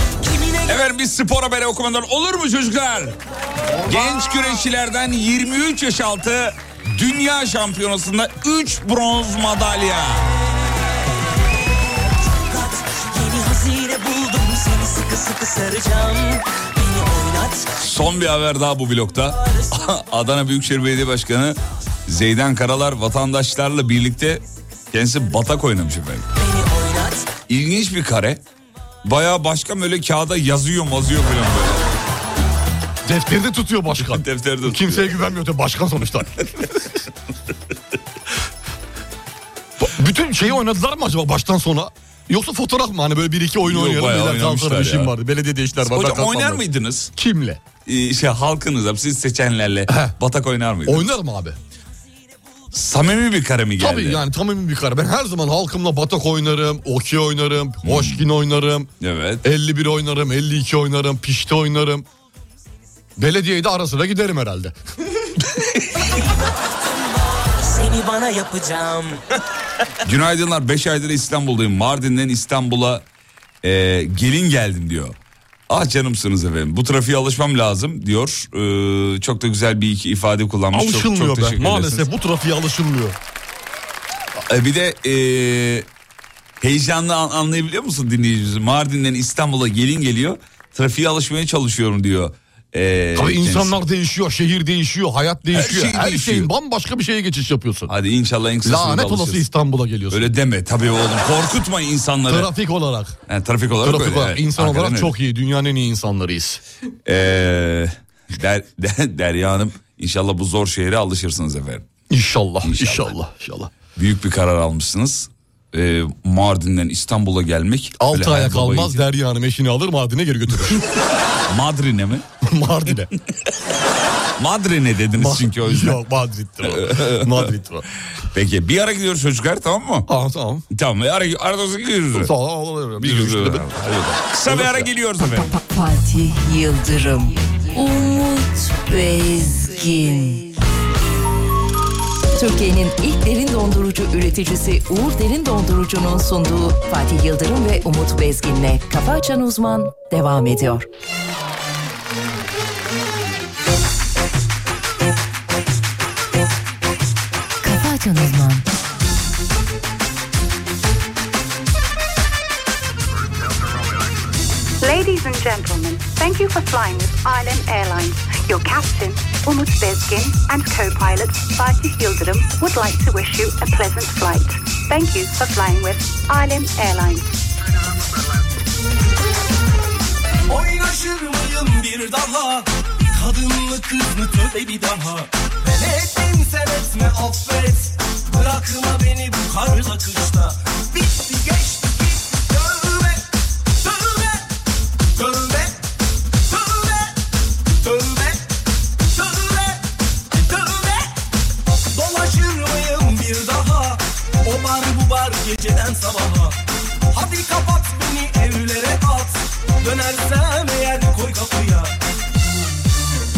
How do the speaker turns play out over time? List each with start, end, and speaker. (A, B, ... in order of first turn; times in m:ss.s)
0:00.2-0:00.8 A
0:00.7-0:03.2 B
0:03.8-0:10.3 B
0:12.3-0:17.7 A
0:17.8-0:26.3 B
0:19.4-0:19.7 A
0:26.3-0:27.3 A
0:27.5-0:28.4 B
0:29.0-0:31.8 B
0:33.0-0:36.8 C
0:34.0-0:35.1 B
0:39.8-0:46.6 C
0:43.6-0:45.1 B
0:45.8-0:47.1 B
0:47.2-0:47.6 C
0:47.8-0:51.1 B
0:49.9-0:50.1 C
0:50.8-0:51.6 C
0:52.7-0:54.2 B
0:53.8-0:58.9 C
0:57.8-0:58.2 B
0:59.0-0:59.4 B
0:59.4-1:02.0 C
1:03.2-1:04.8 C
1:05.5-1:05.9 B
1:06.0-1:09.2 A
1:10.0-1:13.0 B
1:13.6-1:15.1 B
1:15.7-1:22.1 B
1:20.7-1:23.2 C
1:24.5-1:25.9 B
1:26.6-1:33.8 B
1:33.1-1:37.9 C
1:35.5-1:36.5 B
1:37.9-1:39.4 B
1:38.6-1:40.3 C
1:40.1-1:42.5 B
1:42.3-1:43.2 C
1:43.3-1:45.1 B
1:43.8-1:46.6 C
1:47.0-1:51.8 B
1:52.1-1:53.7 C
1:52.6-1:53.1 B
1:54.0-1:59.0 B
1:58.0-2:00.9 C
2:01.5-2:02.2 B
2:02.4-2:03.1 C
2:04.4-2:06.0 B
2:05.1-2:07.8 C
2:06.6-2:07.5 B
2:08.3-2:10.1 B
2:10.1-2:10.6 C
2:10.7-2:12.3 B
2:12.1-2:13.9 C
2:13.0-2:15.5 B
2:14.4-2:14.9 C
2:15.4-2:20.5 D
2:22.3-2:30.8 D
2:37.6-2:38.6 D
2:44.8-2:57.3 E
3:00.5-3:14.4 F
3:15.1-3:15.8 F
3:16.4-3:17.2 F
3:17.8-3:21.1 F
3:21.9-3:26.6 F
3:27.1-3:31.9 F